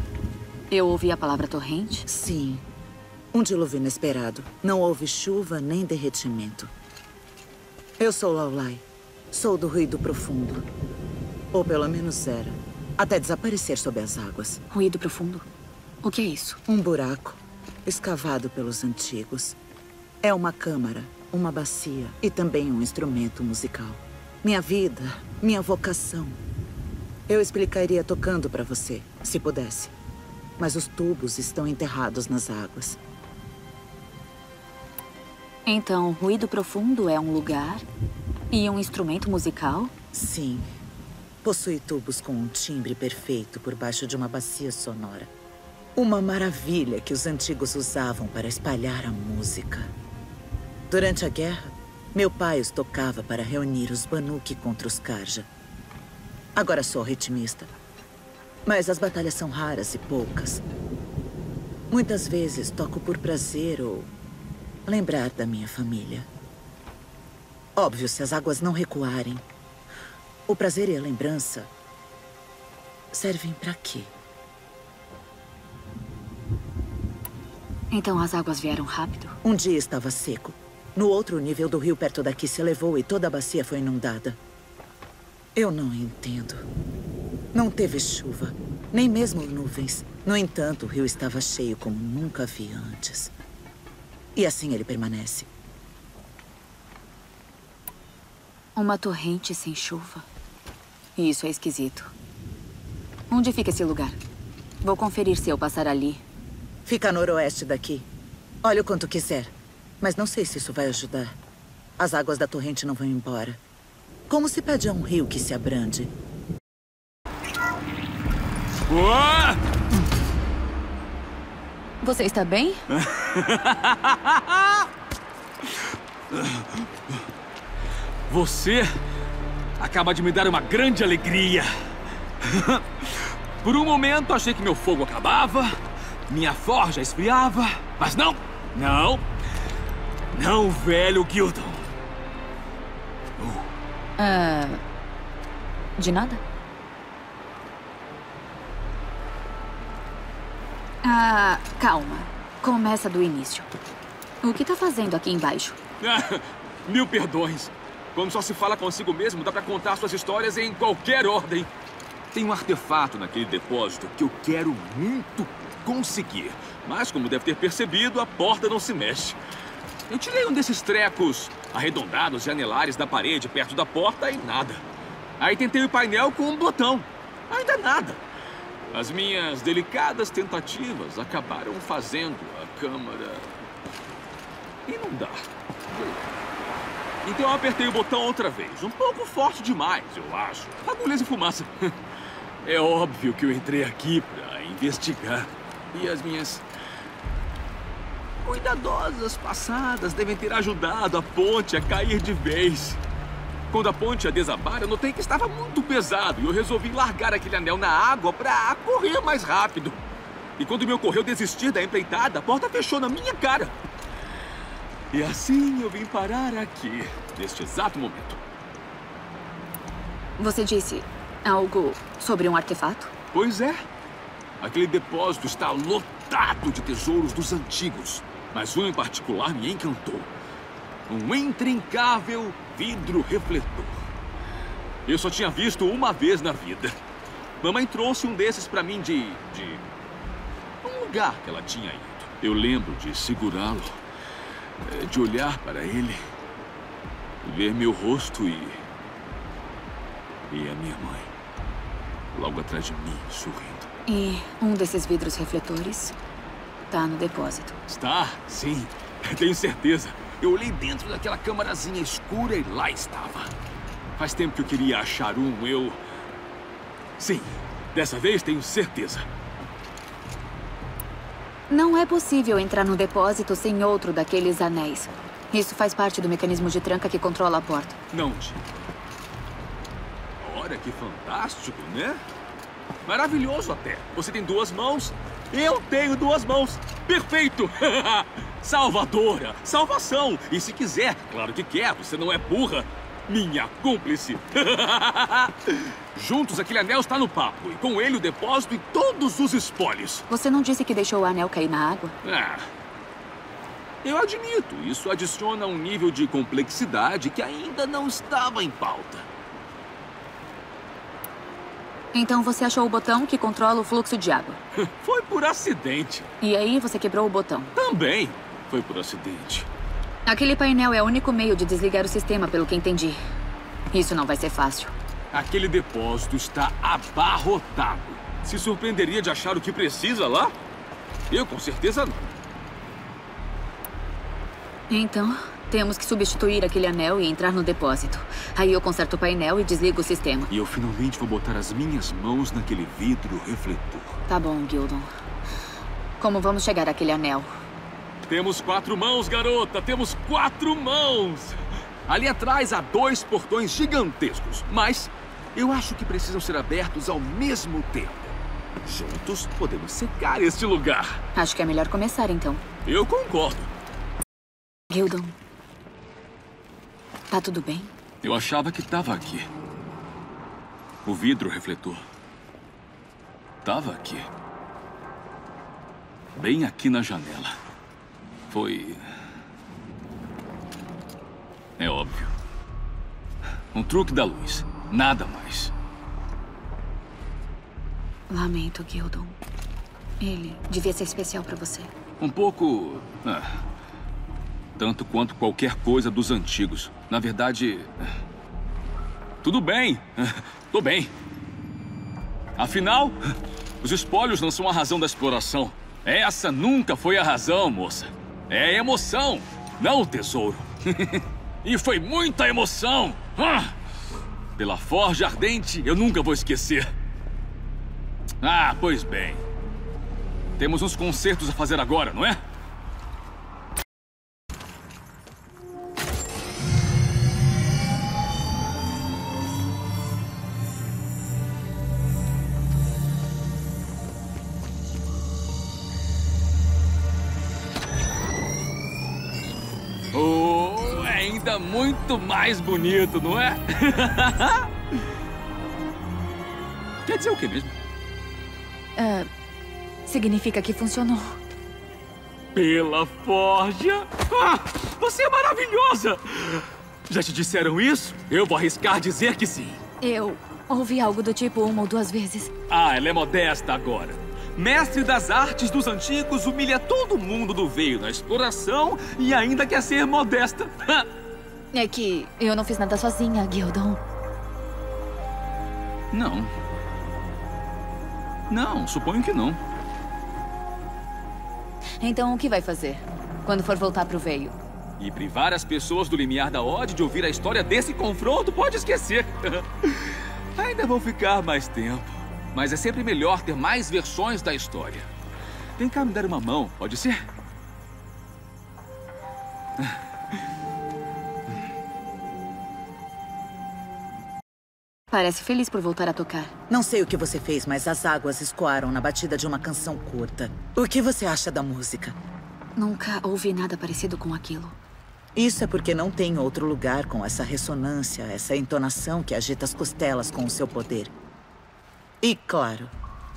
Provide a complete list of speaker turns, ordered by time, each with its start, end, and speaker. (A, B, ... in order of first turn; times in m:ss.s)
0:00.7-0:02.1 A
0:02.1-0:02.6 B
0:03.3-0:06.7 B
0:08.0-0:10.7 B
0:11.5-0:14.6 B
0:14.7-0:15.4 A
0:16.0-0:16.6 A
0:16.7-0:19.6 B
0:20.2-0:26.4 B
0:27.3-0:29.9 B
0:30.6-0:33.0 B
0:35.6-0:37.8 A
0:38.5-0:39.9 A
0:40.1-0:40.6 B
0:41.4-0:45.3 B
0:46.0-0:49.9 B
0:50.9-0:55.5 B
0:56.5-0:57.7 B
0:58.6-1:00.6 B
1:01.9-1:04.1 B
1:04.8-1:06.3 B
1:07.8-1:09.4 B
1:10.5-1:11.7 B
1:13.1-1:14.1 B
1:17.9-1:19.4 A
1:19.4-1:24.4 B
1:25.5-1:26.6 B
1:27.5-1:33.3 B
1:34.4-1:35.5 B
1:38.8-1:40.3 A
1:41.2-1:42.1 A
1:43.3-1:44.2 A
1:44.8-1:46.2 A
1:46.8-1:48.1 B
1:48.6-1:51.4 B
1:52.0-1:53.6 B
1:54.3-1:56.1 B
1:58.9-1:59.6 C
2:02.0-2:02.8 A
2:02.9-2:04.8 C
2:06.3-2:07.2 C
2:08.3-2:08.9 C
2:09.8-2:11.7 C
2:12.4-2:19.2 C
2:20.3-2:21.8 C
2:23.4-2:23.7 C
2:24.2-2:24.8 A
2:26.0-2:26.4 A
2:31.0-2:33.7 A
2:34.4-2:35.8 A
2:36.0-2:41.7 C
2:42.3-2:49.4 C
2:50.1-2:54.8 C
2:55.4-2:58.2 C
2:58.9-3:03.5 C
3:04.9-3:06.3 C
3:07.2-3:11.9 C
3:12.6-3:16.6 C
3:18.4-3:23.0 C
3:23.7-3:30.0 C
3:30.6-3:33.7 C
3:35.1-3:38.4 C
3:40.4-3:43.1 A
3:43.3-3:43.8 C
3:44.6-3:50.3 C
3:51.1-3:54.1 C
3:55.0-3:56.9 C
3:57.6-3:59.8 C
4:00.8-4:04.0 C
4:04.8-4:06.2 C
4:07.4-4:08.8 C
4:10.5-4:11.3 C
4:12.3-4:13.9 C
4:14.1-4:16.2 A
4:16.9-4:17.8 A
4:17.9-4:23.5 C
4:24.2-4:26.0 C
4:27.2-4:29.3 C
4:31.7-4:38.0 A
4:38.1-4:38.8 C
4:40.4-4:42.2 C
4:43.0-5:00.2 C
5:00.3-5:02.1 A
5:02.2-5:02.7 C
5:04.0-5:09.2 C
5:12.1-5:14.6 A
5:14.9-5:16.3 C
5:16.4-5:17.7 A
5:17.7-5:19.7 C
5:20.2-5:23.2 A
5:23.9-5:24.9 A
5:25.3-5:30.5 C
5:31.3-5:32.3 C
5:34.9-5:40.5 A
5:40.5-5:44.2 C
5:44.3-5:45.1 A
5:46.2-5:47.5 A
5:48.2-6:01.2 C
6:01.3-6:02.6 A
6:02.8-6:03.7 C
6:04.9-6:05.4 A
6:07.3-6:07.9 A
6:08.2-6:09.5 C
6:11.0-6:12.0 C
6:13.6-6:14.3 C
6:16.4-6:17.6 C
6:18.5-6:19.0 C
6:21.8-6:22.3 C
6:23.7-6:25.7 C
6:28.3-6:29.4 A
6:30.2-6:31.9 A
6:32.2-6:33.5 C
6:34.8-6:38.0 C
6:39.4-6:41.1 C
6:42.6-6:43.2 C
6:43.8-6:53.7 C
6:54.6-6:56.9 C
6:58.4-6:59.4 C
7:00.6-7:02.4 C
7:20.1-7:24.7 C
7:27.0-7:27.7 C
7:29.0-7:29.3 A
7:30.0-7:31.4 A
7:32.5-7:39.8 C
7:40.0-7:42.5 A
7:42.7-7:51.1 C
7:51.7-7:54.0 A
7:56.1-7:56.5 C
7:58.5-7:59.6 C
8:02.0-8:04.5 A
8:05.0-8:15.1 C
8:15.8-8:17.2 C
8:25.1-8:26.5 A
8:26.7-8:32.2 B
8:32.8-8:34.8 A
8:35.3-8:41.1 B
8:42.2-8:42.9 B